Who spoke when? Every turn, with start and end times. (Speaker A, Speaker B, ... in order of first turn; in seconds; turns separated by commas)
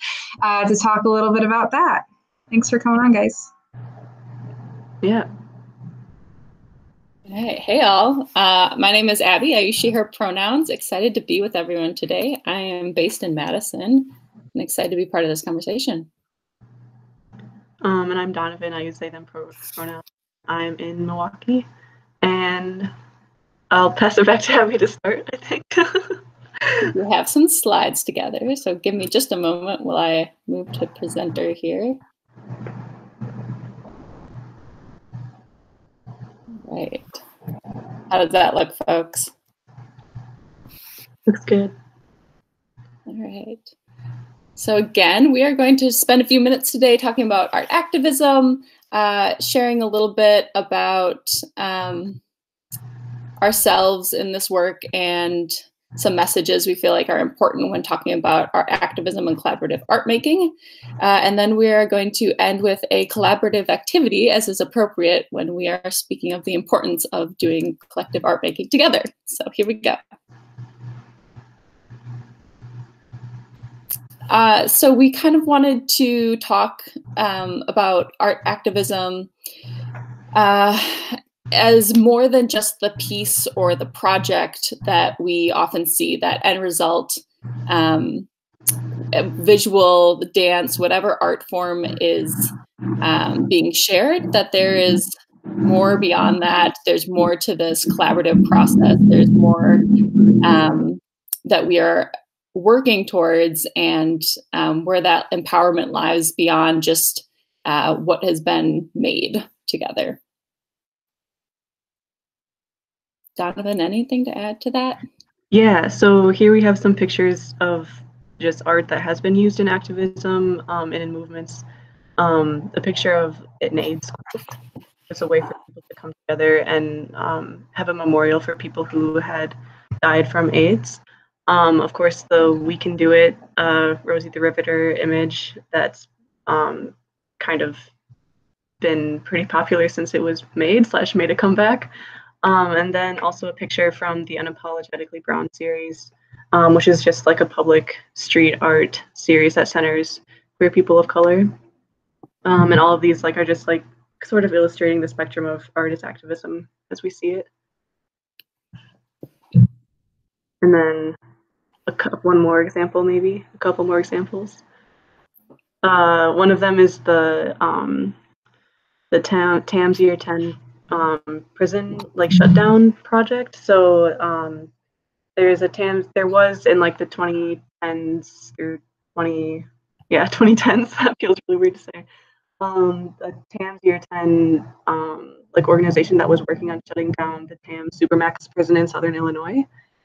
Speaker A: 0.4-3.5, Speaker B: 5.0-5.3, Speaker C: 7.3-16.1, Speaker B: 17.8-21.7, Speaker B: 22.2-22.9, Speaker B: 23.7-26.2, Speaker C: 26.8-32.0, Speaker C: 36.6-37.2, Speaker C: 38.1-39.3, Speaker B: 41.3-41.7, Speaker C: 43.1-43.7, Speaker C: 44.6-52.2, Speaker C: 53.4-70.0, Speaker C: 74.3-79.3, Speaker C: 80.3-88.3, Speaker C: 89.1-99.8, Speaker C: 100.4-110.2, Speaker C: 113.4-115.0, Speaker B: 115.5-121.7, Speaker B: 122.2-124.4, Speaker B: 125.1-137.9, Speaker B: 138.8-141.9, Speaker B: 142.4-151.6, Speaker B: 152.4-157.5, Speaker B: 160.6-161.2, Speaker B: 161.9-164.6, Speaker B: 165.8-168.2, Speaker B: 169.1-174.7, Speaker B: 175.4-182.1, Speaker B: 182.6-189.7